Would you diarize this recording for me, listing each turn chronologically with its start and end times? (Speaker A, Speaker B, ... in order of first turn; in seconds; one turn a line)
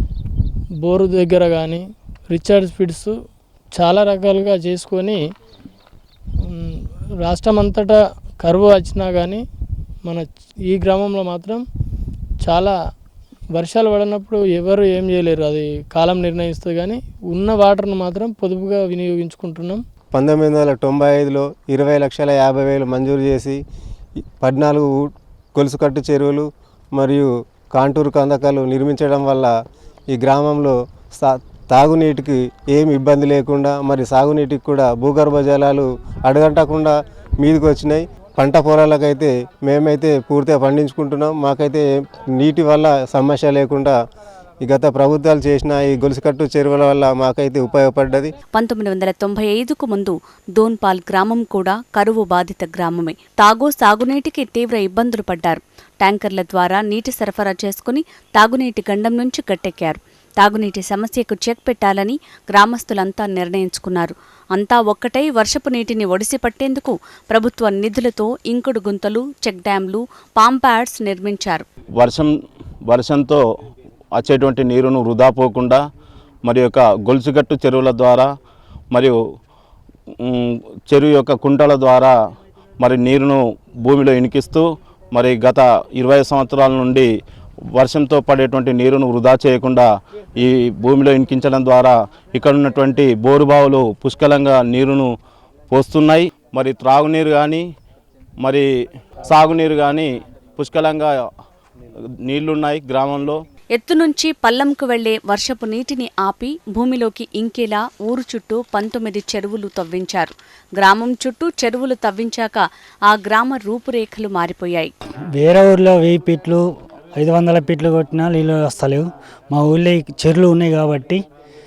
Speaker A: 0.8-3.1
Speaker A: 3.7-5.2
Speaker A: 6.4-9.4
Speaker A: 10.0-11.6
Speaker A: 12.4-12.7
Speaker A: 13.5-19.8
Speaker B: 20.1-23.6
Speaker B: 24.4-29.5
Speaker B: 30.1-43.9
Speaker B: 44.6-48.3
Speaker C: 48.5-71.6
Speaker D: 72.0-72.3
Speaker D: 72.8-73.4
Speaker D: 74.1-75.8
Speaker D: 76.4-78.3
Speaker D: 78.9-79.2
Speaker D: 80.2-82.1
Speaker D: 82.8-87.1
Speaker D: 87.7-95.1
Speaker D: 95.7-97.6
Speaker D: 98.4-98.7
Speaker D: 99.2-101.1
Speaker D: 102.2-103.4
Speaker C: 103.7-114.9
Speaker E: 115.3-121.2